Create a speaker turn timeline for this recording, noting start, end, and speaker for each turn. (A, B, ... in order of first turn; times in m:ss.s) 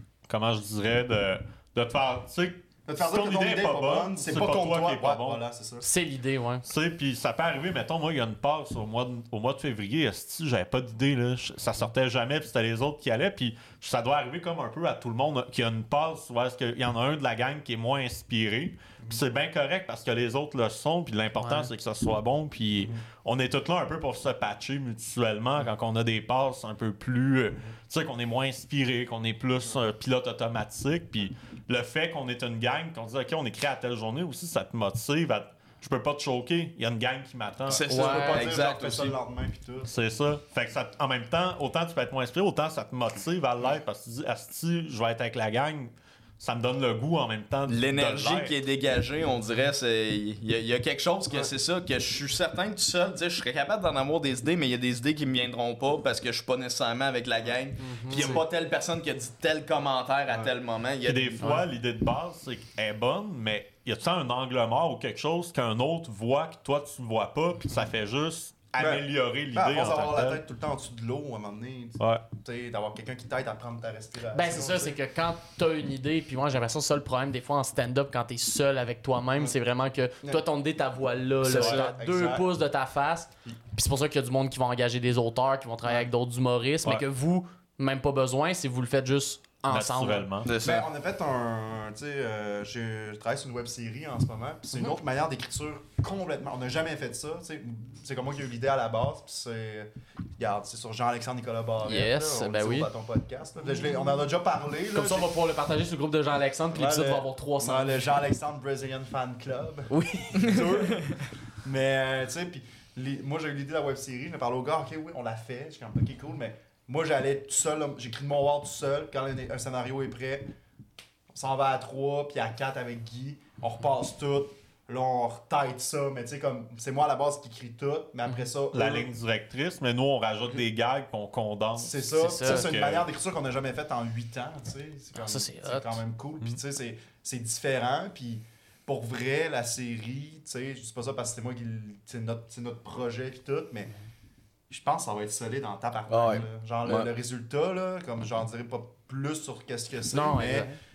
0:00.3-0:05.4 A
0:02.8-0:05.8 B
0:05.8-0:06.6 C
0:06.6-0:37.8 A
0:21.4-0:21.7 C
0:37.6-0:39.9 B
0:37.7-0:39.2 D
0:37.9-0:38.5 C
0:39.8-0:48.5 A
0:47.7-1:01.6 D
0:57.8-0:58.4 C
0:58.1-0:58.4 B
1:01.0-1:10.4 A
1:01.4-1:01.7 C
1:08.8-1:15.0 B
1:14.3-1:30.3 C
1:21.4-1:22.5 B
1:21.5-1:21.8 D
1:29.7-1:30.5 A
1:30.4-1:30.8 D
1:30.6-1:45.3 B
1:41.8-1:42.9 C
1:44.9-1:48.1 C
1:46.7-1:51.1 B
1:49.9-1:50.6 C
1:50.4-1:51.2 D
1:51.6-2:00.5 B
2:01.3-2:09.1 B
2:08.7-2:13.1 A
2:11.8-2:23.9 B
2:12.2-2:12.7 C
2:15.1-2:16.0 C
2:24.7-2:30.7 B
2:26.1-2:27.1 D
2:30.1-2:30.8 C